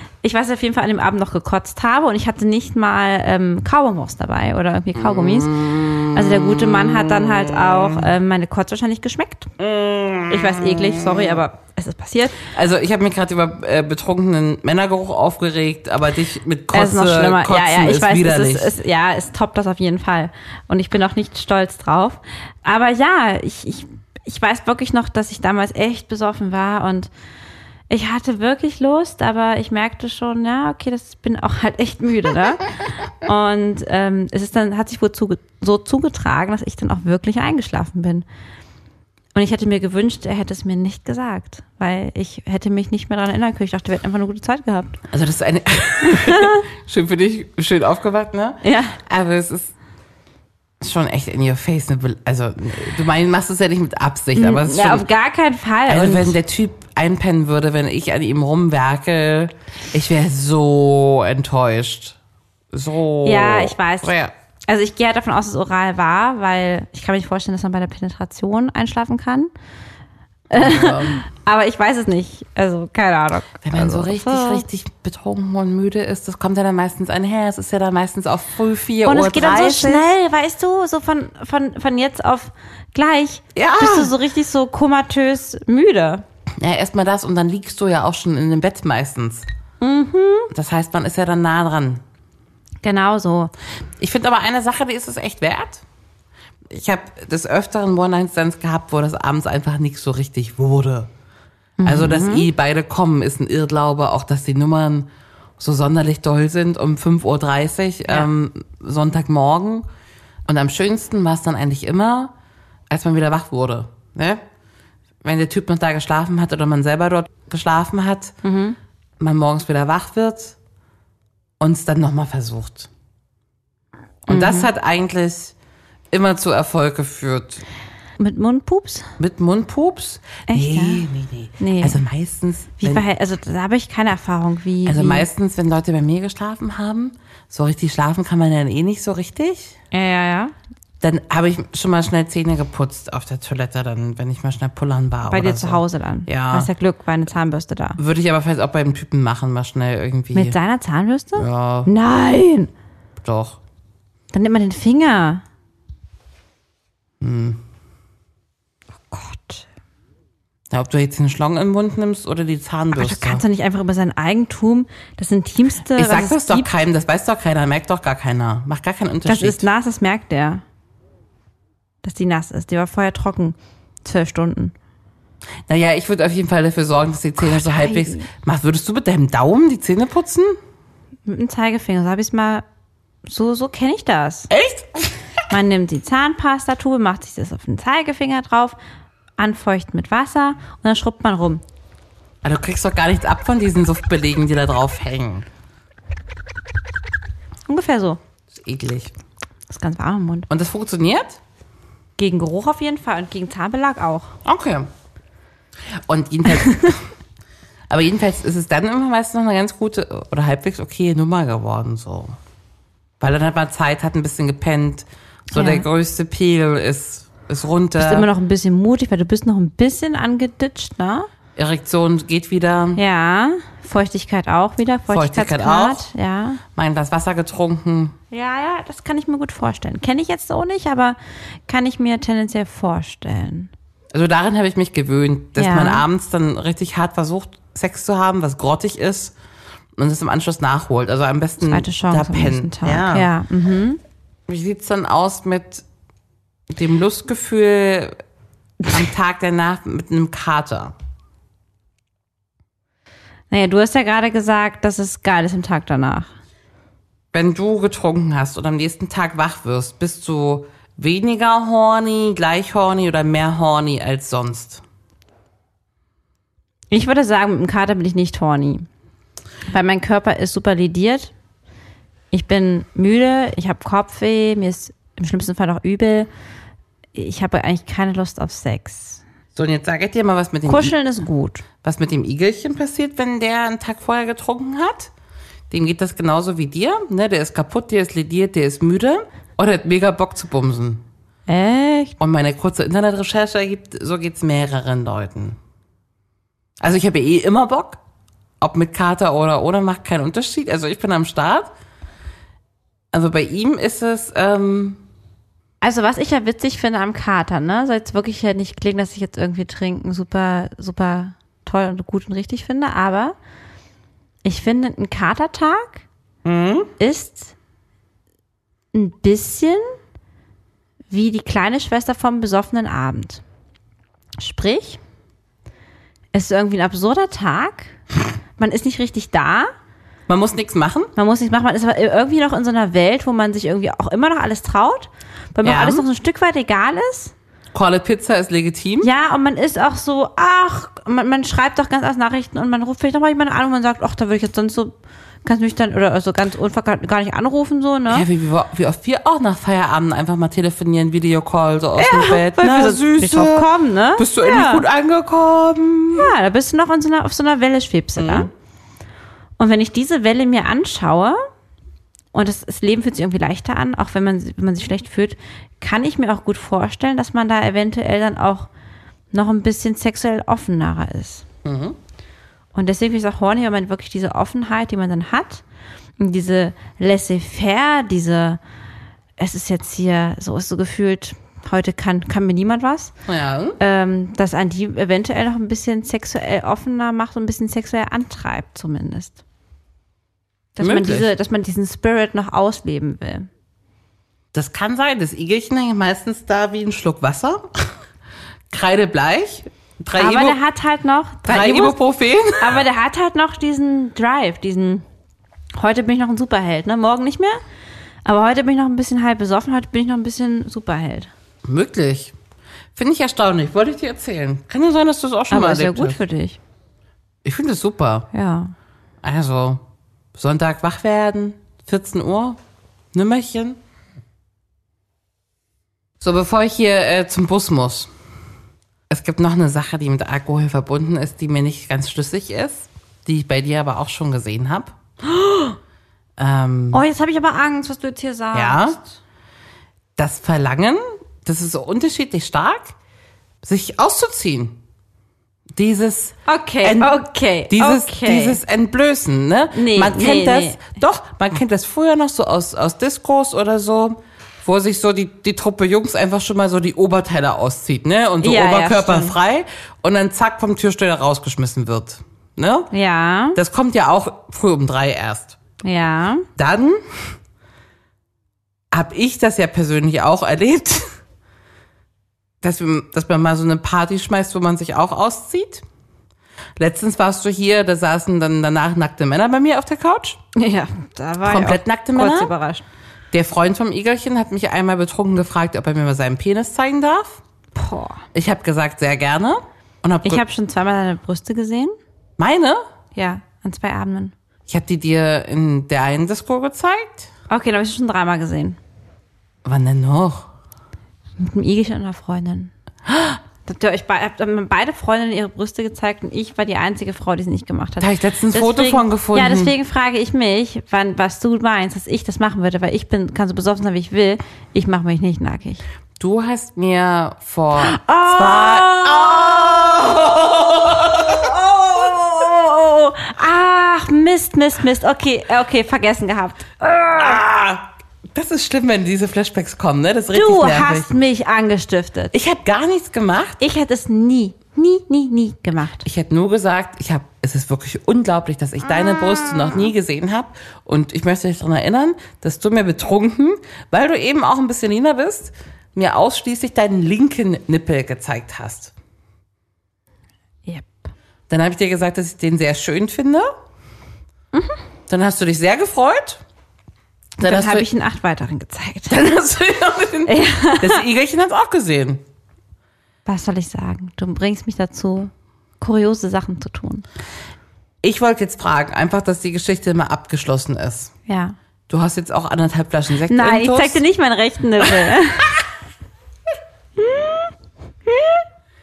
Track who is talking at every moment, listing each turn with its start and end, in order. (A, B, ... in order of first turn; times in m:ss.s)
0:00.2-0:09.5 A
0:05.0-0:08.0 B
0:09.6-0:11.4 B
0:10.3-0:12.4 A
0:12.4-0:18.7 B
0:16.7-0:27.1 A
0:27.9-0:32.7 A
0:33.2-0:38.2 A
0:39.3-0:45.0 A
0:45.1-0:49.7 B
0:46.0-0:46.6 A
0:48.6-0:49.0 A
0:50.8-0:55.1 B
0:54.3-0:56.4 A
0:55.9-1:02.2 B
1:02.7-1:04.3 B
1:03.2-1:04.1 A
1:04.7-1:09.5 A
1:10.5-1:14.6 A
1:10.5-1:11.2 B
1:13.6-1:20.1 B
1:19.0-1:26.2 A
1:23.5-1:24.1 B
1:26.6-1:29.5 B
1:29.8-1:30.5 A
1:30.5-1:32.0 B
1:32.8-1:33.5 A
1:34.0-1:35.8 B
1:36.7-1:41.1 B
1:41.8-1:42.5 A
1:41.8-1:49.8 B
1:50.4-1:52.3 B
1:52.9-1:54.4 B
1:55.2-1:58.4 B
1:58.4-1:58.8 A
1:59.2-2:00.6 B
2:01.6-2:02.9 B
2:04.2-2:05.5 B
2:04.3-2:04.7 A
2:06.1-2:07.6 B
2:08.2-2:09.1 A
2:09.2-2:13.0 B
2:10.5-2:11.1 A
2:11.6-2:12.0 A
2:12.8-2:15.3 A
2:14.8-2:19.7 B
2:19.9-2:20.5 A
2:21.0-2:26.7 B
2:25.3-2:28.0 A
2:28.0-2:30.6 B
2:30.3-2:32.7 A
2:31.4-2:31.9 B
2:33.2-2:33.6 B
2:34.3-2:35.4 A
2:37.2-2:37.6 B
2:39.1-2:39.6 A
2:40.7-2:43.4 B
2:42.9-2:46.7 A
2:45.9-2:49.6 B
2:49.2-2:50.6 A
2:52.0-2:54.7 A
2:55.7-3:00.6 B
2:57.4-2:58.3 A
3:01.2-3:02.6 A
3:03.2-3:04.5 A
3:04.5-3:05.2 B
3:05.5-3:08.8 A
3:09.4-3:11.6 A
3:12.4-3:15.5 B
3:17.7-3:18.2 A
3:18.5-3:19.1 B
3:19.7-3:20.5 A
3:20.5-3:21.4 B
3:22.2-3:24.3 A
3:24.4-3:24.9 B
3:25.9-3:27.0 B
3:26.5-3:26.9 A
3:27.9-3:32.4 B
3:33.2-3:38.3 B
3:35.5-3:35.8 A
3:38.0-3:41.3 A
3:41.6-3:43.0 B
3:43.0-3:46.6 A
3:45.1-3:46.1 B
3:46.7-3:48.1 B
3:48.3-3:51.2 A
3:51.7-3:53.7 A
3:54.1-3:59.3 B
3:55.6-3:56.0 A
4:00.0-4:03.3 B
4:01.6-4:04.0 A
4:04.5-4:05.8 B
4:06.7-4:08.2 B
4:08.8-4:10.9 B
4:13.5-4:16.3 A
4:17.3-4:24.8 B
4:26.9-4:28.9 A
4:29.7-4:31.3 A
4:32.3-4:36.3 A
4:37.1-4:39.2 A
4:39.5-4:41.0 B
4:40.7-4:41.6 A
4:41.8-4:45.1 B
4:45.7-4:51.0 B
4:51.5-4:52.2 A
4:52.2-4:55.6 B
4:56.8-4:58.0 B
4:58.6-5:01.7 B
5:03.1-5:05.0 B
5:05.8-5:13.3 A
5:14.4-5:16.0 A
5:16.4-5:16.9 B
5:17.0-5:17.5 A
5:18.9-5:19.8 A
5:21.1-5:23.4 A
5:24.4-5:25.0 A
5:26.3-5:28.0 A
5:28.6-5:29.7 A
5:30.3-5:31.1 B
5:31.2-5:37.3 A
5:35.6-5:36.0 B
5:37.7-5:39.1 B
5:39.0-5:44.9 A
5:45.4-5:48.2 A
5:48.1-5:56.3 B
5:52.0-5:54.8 A
5:56.2-5:58.5 A
5:58.2-5:58.5 B
5:59.6-6:01.4 A
6:02.3-6:08.7 A
6:09.3-6:11.4 A
6:11.6-6:12.0 B
6:12.7-6:15.6 A
6:16.2-6:18.6 A
6:19.4-6:23.1 A
6:23.3-6:23.8 B
6:23.8-6:29.4 A
6:30.8-6:33.5 A
6:30.8-6:31.3 B
6:34.5-6:37.9 B
6:38.7-6:40.6 B
6:40.2-6:42.0 A
6:41.4-6:42.8 B
6:42.5-6:45.0 A
6:45.7-6:47.6 A
6:48.2-6:51.3 A
6:51.6-6:52.3 B
6:52.9-6:56.2 B
6:55.5-6:56.6 A
6:57.4-6:58.3 B
6:58.3-6:58.7 A
6:59.2-6:59.8 B
7:00.3-7:02.6 B
7:03.1-7:03.8 B
7:06.2-7:08.1 B
7:09.1-7:14.9 B
7:15.2-7:15.8 A
7:16.4-7:17.0 B
7:16.9-7:19.1 A
7:18.5-7:19.0 B
7:20.2-7:22.9 B
7:23.6-7:24.8 B
7:25.7-7:42.9 B
7:26.5-7:28.6 A
7:29.7-7:30.8 A
7:38.4-7:39.3 A
7:42.9-7:43.6 A
7:43.5-7:45.6 B
7:45.8-7:46.5 A
7:46.6-7:47.3 B
7:48.9-7:51.1 B
7:52.6-7:55.8 B
7:56.8-8:00.4 B
8:00.6-8:02.8 A
8:01.4-8:02.5 B
8:03.3-8:07.4 B
8:07.7-8:08.2 A
8:08.3-8:10.4 B
8:10.2-8:12.0 A
8:12.4-8:12.8 B
8:13.2-8:14.3 A
8:14.7-8:17.3 B
8:17.5-8:18.8 A
8:19.6-8:20.5 B
8:21.4-8:22.7 A
8:23.6-8:35.8 A
8:28.0-8:29.7 B
8:36.2-8:41.6 B
8:37.8-8:39.7 A
8:41.2-8:47.4 A
8:47.1-8:51.1 B
8:50.3-8:52.3 A
8:52.3-8:53.6 B
8:53.6-8:56.0 A
8:56.0-9:08.9 B
9:10.6-9:11.1 A
9:11.5-9:13.5 B
9:15.1-9:16.4 B
9:17.4-9:17.9 B
9:17.4-9:19.1 A
9:19.1-9:22.2 B
9:20.2-9:21.0 A
9:23.2-9:27.0 A
9:28.0-9:31.1 B
9:31.2-9:31.6 A
9:31.9-9:34.0 B
9:33.3-9:35.5 A
9:34.8-9:35.2 B
9:37.0-9:37.5 A
9:38.1-9:38.4 A